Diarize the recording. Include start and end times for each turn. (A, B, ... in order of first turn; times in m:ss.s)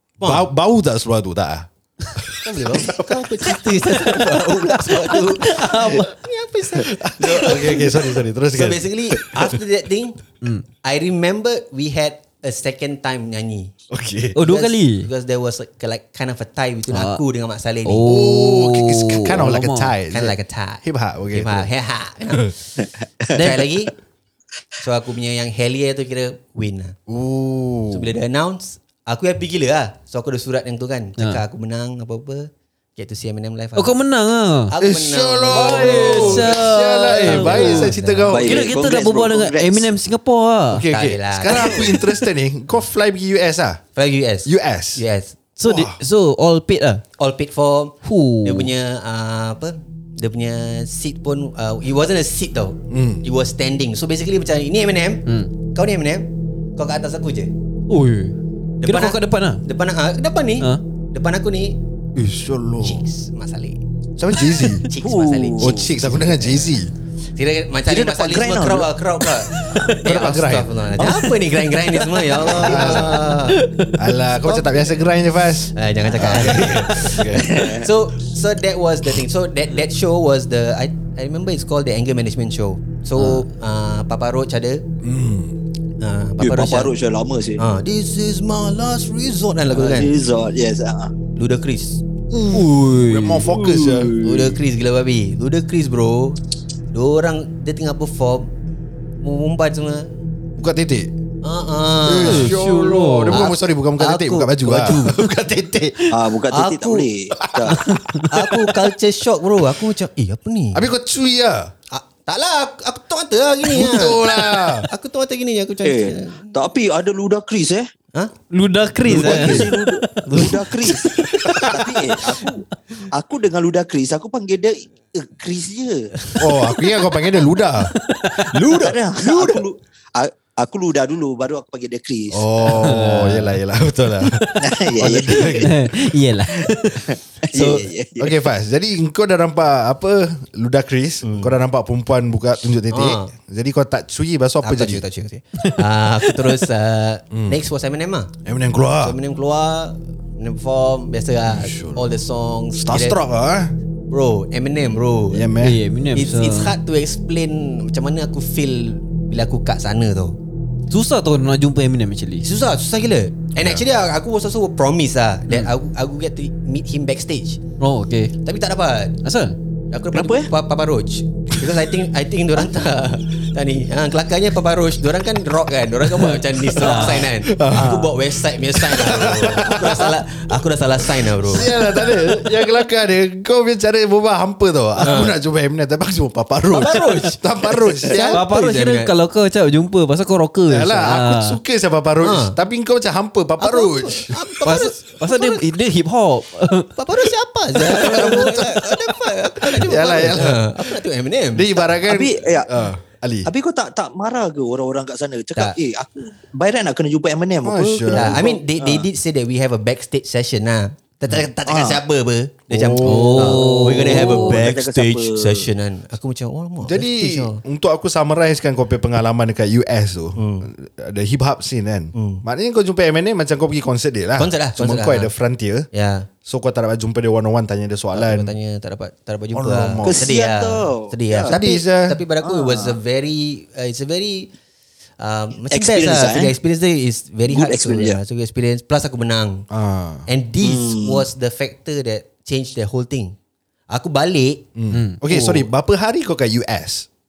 0:00.2-0:00.5 A
0:00.2-0:03.5 B
0:02.4-0:10.2 A
0:04.9-0:06.1 C
0:06.8-0:09.5 B
0:10.8-0:13.7 A
0:13.9-0:14.4 B
0:14.4-0:15.1 C
0:14.4-0:18.2 A
0:16.9-0:17.2 C
0:17.8-0:19.9 C
0:18.0-0:21.7 B
0:20.1-0:22.5 A
0:22.8-0:23.3 D
0:23.3-0:23.9 A
0:23.4-0:23.6 C
0:24.8-0:27.0 A
0:27.1-0:28.1 B
0:27.9-0:33.9 A
0:31.2-0:31.4 C
0:33.8-0:34.7 C
0:34.7-0:36.6 A
0:34.8-0:38.7 B
0:35.5-0:40.9 C
0:37.2-0:38.3 A
0:38.3-0:39.9 D
0:40.7-0:43.8 B
0:40.9-0:42.0 A
0:44.0-0:45.4 A
0:44.4-0:45.0 B
0:45.6-0:47.0 C
0:45.6-0:46.0 B
0:47.2-0:57.5 A
0:48.0-0:48.7 C
0:52.9-0:53.2 B
0:57.9-0:59.6 C
0:58.8-1:01.8 A
1:02.2-1:03.0 B
1:02.8-1:03.8 A
1:04.2-1:04.9 B
1:04.8-1:06.8 A
1:05.0-1:05.9 D
1:05.6-1:06.9 B
1:07.4-1:13.6 A
1:07.8-1:09.0 D
1:09.6-1:10.0 C
1:10.0-1:10.9 B
1:11.0-1:14.0 C
1:12.5-1:13.4 B
1:13.9-1:17.5 B
1:14.4-1:15.0 A
1:15.7-1:24.8 A
1:17.3-1:17.9 D
1:23.2-1:23.4 C
1:25.0-1:25.6 B
1:26.0-1:26.9 A
1:26.4-1:27.6 D
1:27.6-1:30.1 A
1:29.7-1:31.1 D
1:31.4-1:32.0 A
1:32.3-1:34.2 B
1:32.5-1:33.8 C
1:33.8-1:34.5 D
1:34.2-1:36.4 A
1:36.9-1:38.5 A
1:39.2-1:40.1 A
1:40.6-1:41.1 B
1:41.4-1:42.6 A
1:42.0-1:46.2 B
1:42.2-1:43.5 C
1:43.3-1:45.2 A
1:46.1-1:47.8 D
1:46.5-1:47.1 A
1:47.3-1:48.6 B
1:47.8-1:48.3 C
1:48.3-1:50.9 A
1:50.7-1:51.7 B
1:51.9-1:56.5 A
1:53.6-1:54.9 B
1:55.8-1:57.9 D
1:58.5-2:00.5 C
1:59.0-1:59.7 B
1:59.1-2:06.1 D
2:00.2-2:01.7 A
2:01.5-2:01.7 B
2:06.4-2:07.9 B
2:08.0-2:08.5 C
2:08.4-2:09.7 A
2:08.7-2:12.7 D
2:12.3-2:15.8 B
2:12.7-2:13.6 C
2:14.2-2:17.2 C
2:14.6-2:15.7 D
2:16.7-2:18.4 D
2:17.6-2:17.8 A
2:18.2-2:25.0 B
2:21.2-2:21.5 A
2:22.9-2:23.3 A
2:24.6-2:28.3 A
2:25.6-2:26.6 C
2:27.3-2:27.6 B
2:28.4-2:29.2 B
2:29.0-2:33.2 A
2:31.4-2:32.0 B
2:32.8-2:33.7 B
2:34.1-2:35.4 A
2:35.3-2:35.8 B
2:35.6-2:36.7 C
2:36.2-2:40.4 A
2:40.9-2:42.5 C
2:42.4-2:47.6 A
2:43.6-2:43.8 B
2:47.8-2:48.3 C
2:48.4-2:49.2 A
2:49.2-2:49.6 C
2:49.9-3:01.8 A
2:50.1-2:50.5 C
2:56.2-2:57.4 C
2:56.9-3:00.2 B
3:01.0-3:08.4 B
3:05.0-3:05.4 A
3:06.7-3:09.1 A
3:08.3-3:11.6 C
3:10.7-3:14.4 B
3:12.2-3:12.6 A
3:13.6-3:15.6 A
3:14.6-3:17.3 C
3:17.0-3:22.0 A
3:17.8-3:18.9 B
3:17.8-3:18.4 C
3:19.6-3:20.9 B
3:21.5-3:23.5 B
3:22.1-3:22.7 D
3:23.4-3:29.1 D
3:27.6-3:28.4 B
3:28.1-3:37.6 A
3:31.7-3:32.0 D
3:32.7-3:33.9 B
3:33.0-3:34.6 C
3:34.0-3:35.7 D
3:36.8-3:45.9 B
3:40.4-3:40.7 A
3:42.1-3:42.4 A
3:44.4-3:45.3 A
3:45.9-3:46.3 A
3:46.4-3:48.5 B
3:48.1-3:54.5 A
3:49.5-3:50.3 B
3:50.0-3:51.6 D
3:51.5-3:52.2 B
3:52.4-3:53.0 D
3:55.2-3:59.7 A
3:55.7-3:56.6 D
3:57.5-3:58.2 D
3:59.7-4:00.3 B
4:00.3-4:03.4 A
4:00.6-4:01.3 D
4:03.9-4:04.7 A
4:04.8-4:07.1 B
4:04.9-4:05.2 C
4:05.3-4:05.7 A